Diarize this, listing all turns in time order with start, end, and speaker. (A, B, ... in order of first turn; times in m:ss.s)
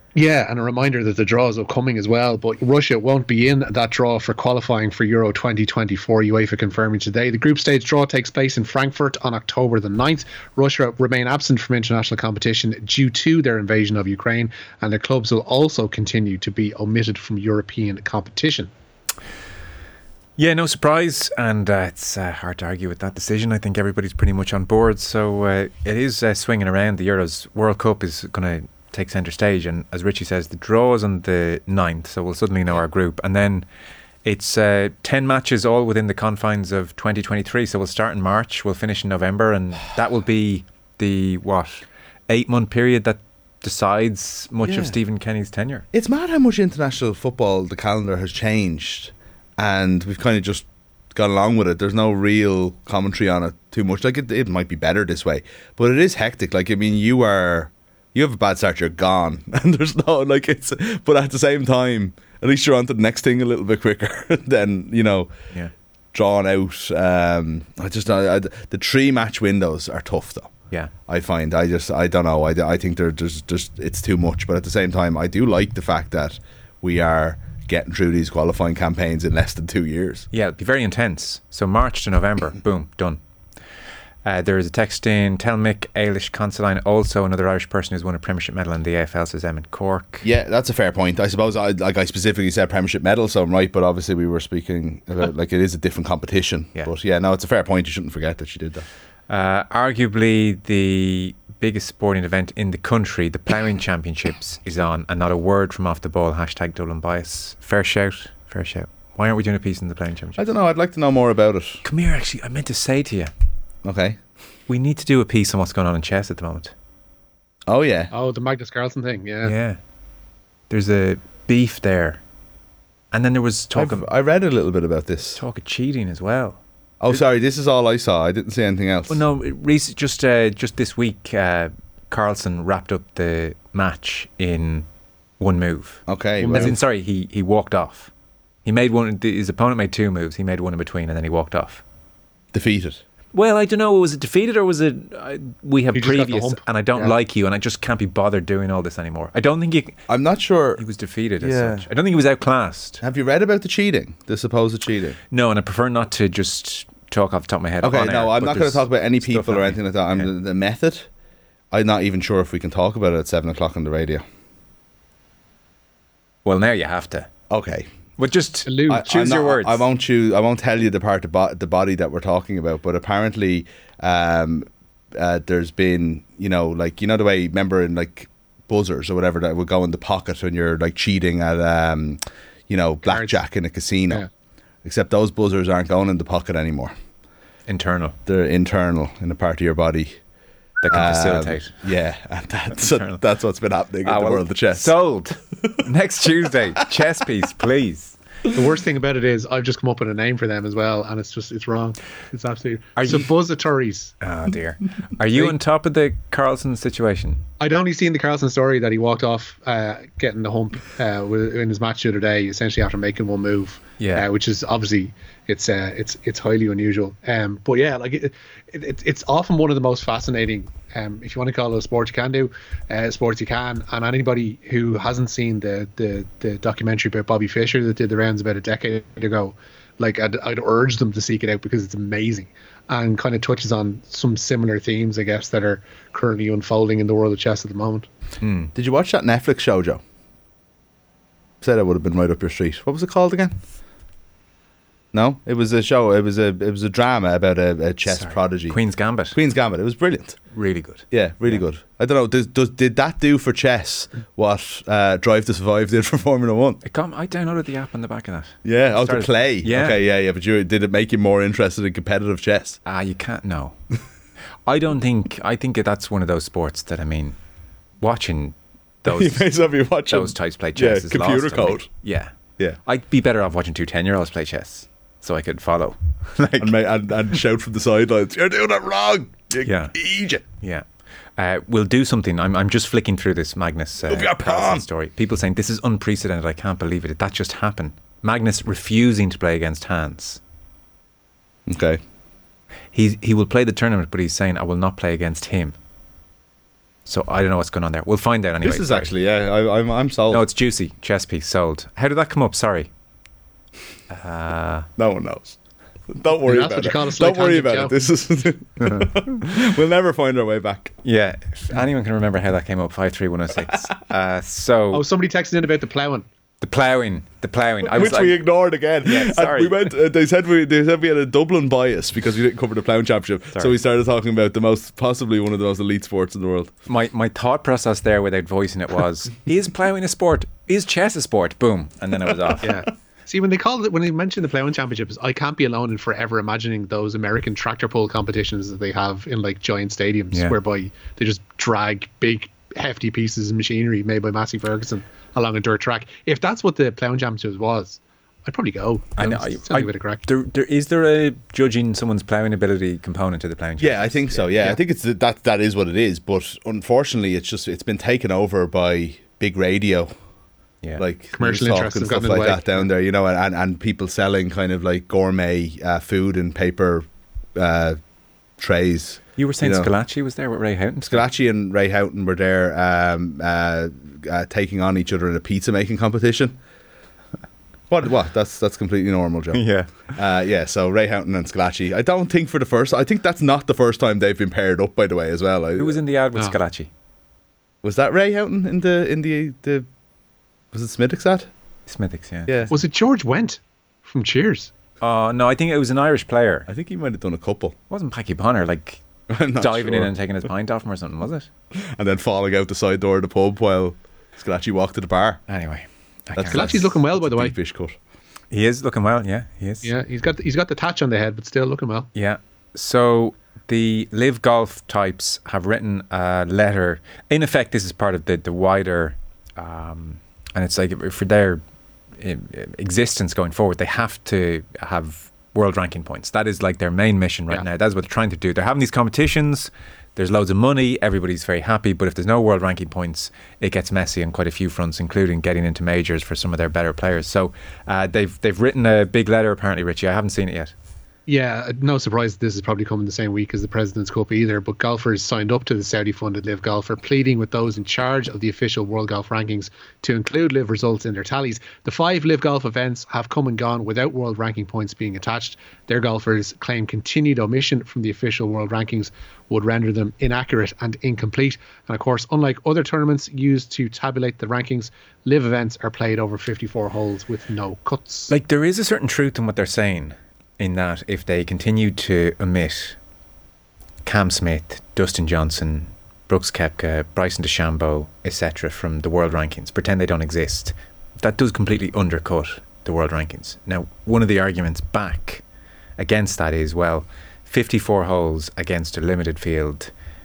0:00.1-0:18.7 A
0:20.4-0:33.6 B
0:34.2-0:45.8 B
0:44.6-0:45.0 C
0:45.9-1:05.3 C
1:06.1-1:10.5 C
1:11.1-1:20.3 C
1:20.3-1:23.2 B
1:24.2-1:30.3 B
1:30.2-1:38.8 C
1:39.3-1:50.4 B
1:50.4-1:51.8 C
1:51.8-1:53.3 B
1:53.8-1:54.2 C
1:54.7-1:56.7 B
1:57.7-1:58.1 C
1:58.1-1:59.5 A
1:59.4-1:59.8 B
2:00.7-2:02.2 B
2:03.1-2:04.1 B
2:03.7-2:05.4 C
2:05.4-2:06.6 B
2:07.0-2:09.2 C
2:09.1-2:14.8 B
2:15.4-2:18.1 B
2:16.1-2:16.8 C
2:16.4-2:16.7 A
2:18.6-2:21.8 B
2:22.5-2:23.0 C
2:23.3-2:30.0 B
2:25.9-2:27.1 A
2:30.1-2:30.8 C
2:30.8-2:33.0 B
2:31.4-2:31.9 C
2:33.0-2:35.2 C
2:35.3-2:40.3 B
2:37.8-2:41.1 C
2:41.7-2:44.2 C
2:46.4-2:47.3 B
2:47.5-2:47.9 C
2:48.2-2:49.8 B
2:48.6-2:49.0 A
2:48.9-3:04.2 C
3:03.1-3:03.4 A
3:04.8-3:06.9 C
3:07.7-3:08.2 B
3:08.2-3:10.2 C
3:10.8-3:11.8 B
3:10.9-3:14.9 C
3:12.8-3:13.2 B
3:14.0-3:18.2 B
3:18.5-3:24.1 A
3:23.0-3:23.3 B
3:24.2-3:27.4 B
3:27.6-3:58.1 A
3:34.0-3:34.2 B
3:58.4-3:58.7 B
3:58.7-4:00.0 C
4:01.6-4:03.6 C
4:05.1-4:08.8 C
4:08.0-4:09.4 B
4:09.3-4:10.4 C
4:10.5-4:11.6 B
4:11.1-4:16.8 C
4:16.8-4:20.0 B
4:18.6-4:22.8 C
4:22.8-4:23.8 B
4:24.6-4:27.4 B
4:28.0-4:36.7 B
4:29.0-4:31.9 C
4:36.6-4:40.4 C
4:39.6-4:50.4 B
4:44.1-4:44.8 C
4:51.7-4:52.0 C
4:52.9-4:55.8 B
4:57.0-4:59.1 B
4:58.6-5:00.4 C
5:00.3-5:02.9 B
5:04.1-5:04.9 B
5:05.0-5:11.0 C
5:06.4-5:08.0 A
5:08.8-5:09.1 B
5:11.0-5:15.0 B
5:14.9-5:16.2 A
5:16.6-5:18.4 B
5:17.8-5:26.7 C
5:19.0-5:19.9 B
5:26.9-5:32.7 B
5:32.6-5:50.2 A
5:49.2-5:54.7 B
5:53.8-6:00.1 C
6:01.0-6:08.0 C
6:01.3-6:02.9 A
6:08.6-6:09.9 C
6:09.4-6:11.2 B
6:11.1-6:16.6 C
6:17.9-6:26.0 C
6:19.5-6:20.1 B
6:25.8-6:26.9 B
6:27.8-6:29.9 C
6:30.7-6:31.5 C
6:31.9-6:32.7 B
6:32.7-6:34.7 A
6:35.0-6:36.7 B
6:36.7-6:37.8 C
6:37.9-6:39.0 B
6:39.3-6:40.1 C
6:39.5-6:41.5 B
6:41.8-6:45.4 C
6:45.5-6:47.0 B
6:46.3-6:47.9 C
6:46.5-6:47.5 A
6:48.5-6:49.9 B
6:49.8-6:52.1 A
6:52.1-7:01.6 B
7:02.2-7:20.7 B
7:21.3-7:48.3 A
7:48.3-7:53.0 B
7:54.0-8:05.4 B
8:06.0-8:09.9 B